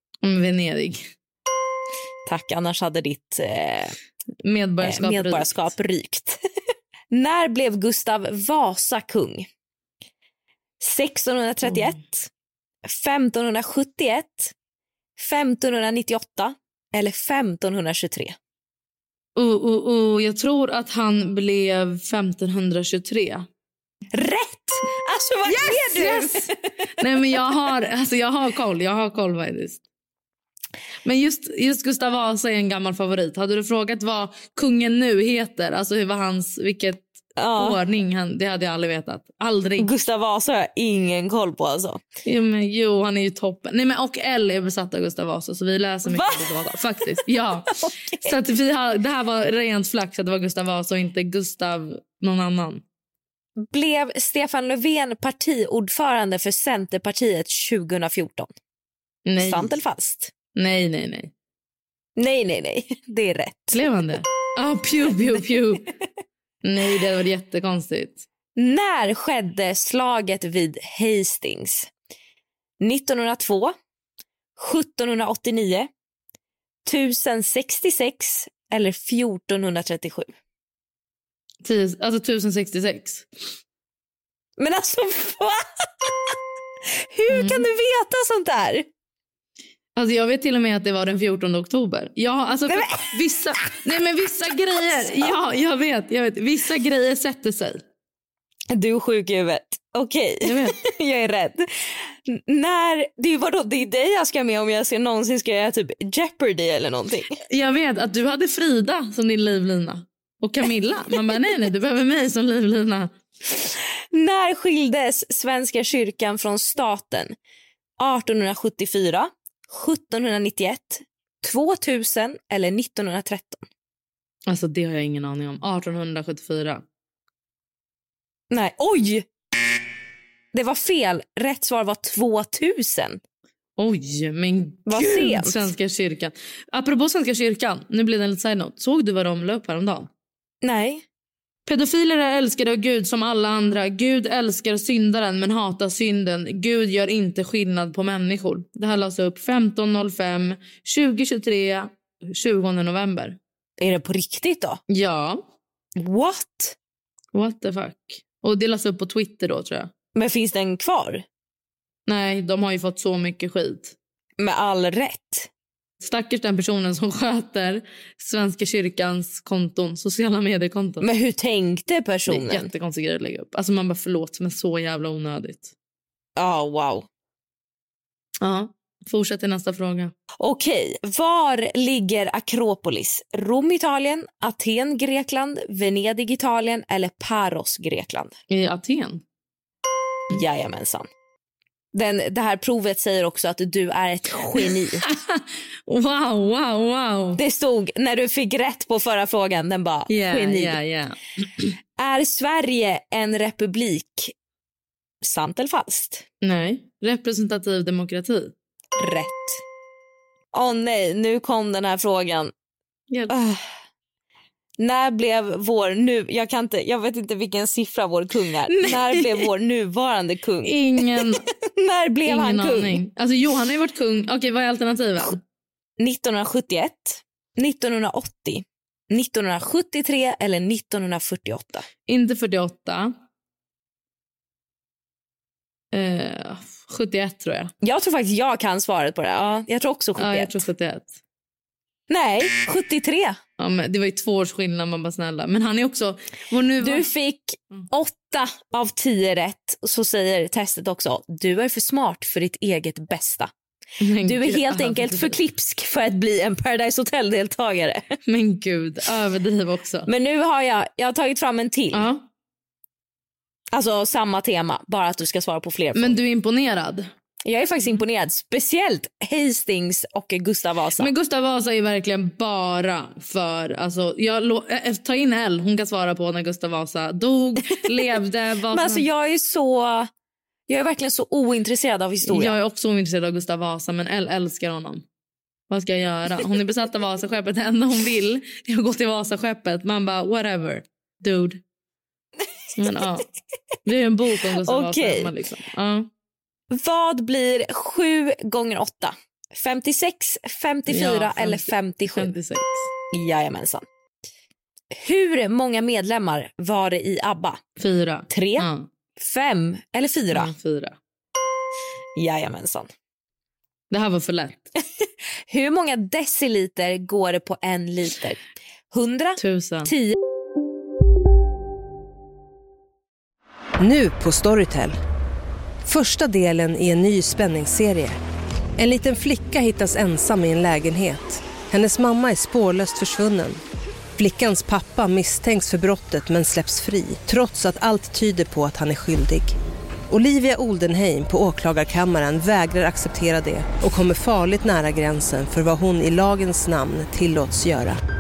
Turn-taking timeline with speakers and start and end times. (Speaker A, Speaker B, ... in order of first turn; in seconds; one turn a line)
Speaker A: 0.2-1.1
Speaker B: 2.3-4.0
Speaker A: 4.4-5.7
Speaker B: 4.8-6.4
Speaker B: 7.1-9.5
Speaker B: 10.8-12.3
Speaker A: 11.6-11.9
Speaker B: 12.9-14.5
Speaker B: 15.2-18.4
Speaker A: 19.4-23.5
Speaker B: 24.1-26.5
Speaker A: 25.4-29.8
Speaker A: 31.0-39.9
Speaker B: 37.4-37.8
Speaker B: 39.8-42.0
Speaker A: 42.2-52.8
Speaker B: 46.1-46.8
Speaker B: 47.7-48.4
Speaker B: 53.6-58.5
Speaker A: 59.3-59.7
Speaker B: 59.4-60.3
Speaker A: 60.4-61.3
Speaker B: 62.2-63.8
Speaker A: 63.7-65.9
Speaker A: 66.6-68.3
Speaker B: 68.6-71.9
Speaker B: 72.8-73.7
Speaker B: 74.6-75.9
Speaker B: 76.9-80.3
Speaker A: 81.6-83.3
Speaker B: 84.6-86.3
Speaker B: 87.1-88.9
Speaker A: 87.3-87.7
Speaker A: 90.0-97.8
Speaker B: 92.7-93.1
Speaker B: 95.1-95.3
Speaker B: 98.7-107.3
Speaker A: 100.4-100.8
Speaker A: 107.5-113.1
Speaker B: 114.1-117.3
Speaker B: 118.0-123.6
Speaker A: 124.5-126.8
Speaker B: 128.5-129.3
Speaker B: 130.5-133.2
Speaker A: 133.8-140.1
Speaker B: 134.9-135.7
Speaker B: 140.6-141.0
Speaker A: 141.7-153.4
Speaker B: 153.8-154.8
Speaker A: 154.9-155.4
Speaker B: 156.0-156.8
Speaker A: 157.3-159.9
Speaker B: 160.2-161.2
Speaker A: 162.1-163.9
Speaker B: 164.4-165.5
Speaker A: 166.0-171.1
Speaker B: 171.0-172.7
Speaker A: 172.3-175.7
Speaker B: 176.4-177.1
Speaker A: 178.4-180.1
Speaker B: 180.4-188.3
Speaker A: 188.5-189.2
Speaker B: 190.3-191.1
Speaker B: 191.9-195.1
Speaker A: 194.6-197.4
Speaker B: 197.4-200.8
Speaker A: 200.1-201.7
Speaker B: 202.0-204.3
Speaker B: 205.2-206.2
Speaker A: 206.4-208.5
Speaker B: 209.0-209.6
Speaker B: 210.5-212.5
Speaker B: 213.3-213.6
Speaker B: 214.8-220.8
Speaker A: 218.7-219.5
Speaker A: 220.6-221.4
Speaker B: 221.7-223.0
Speaker A: 222.2-225.4
Speaker B: 226.0-231.9
Speaker A: 232.1-233.1
Speaker A: 235.9-237.7
Speaker B: 237.8-240.6
Speaker A: 240.2-241.2
Speaker B: 242.1-243.4
Speaker A: 243.6-247.1
Speaker B: 246.8-253.5
Speaker A: 254.0-255.4
Speaker B: 254.2-258.0
Speaker A: 258.3-260.1
Speaker B: 260.1-262.1
Speaker A: 261.9-262.3
Speaker B: 263.7-266.2
Speaker A: 265.9-267.1
Speaker B: 267.4-271.1
Speaker A: 271.0-279.1
Speaker B: 278.7-280.1
Speaker B: 280.7-282.5
Speaker A: 282.2-285.1
Speaker A: 285.7-291.6
Speaker A: 292.8-293.3
Speaker A: 293.8-296.1
Speaker B: 294.6-295.3
Speaker B: 296.7-302.3
Speaker A: 300.9-302.9
Speaker B: 303.1-303.8
Speaker B: 304.9-307.6
Speaker A: 307.8-308.9
Speaker B: 308.3-310.5
Speaker A: 310.3-311.0
Speaker B: 312.2-312.9
Speaker A: 313.9-314.6
Speaker B: 315.5-318.4
Speaker B: 318.9-320.2
Speaker A: 319.4-319.9
Speaker C: 323.8-325.0
Speaker C: 325.9-328.2
Speaker C: 328.8-333.6
Speaker C: 334.2-339.6
Speaker C: 340.1-348.0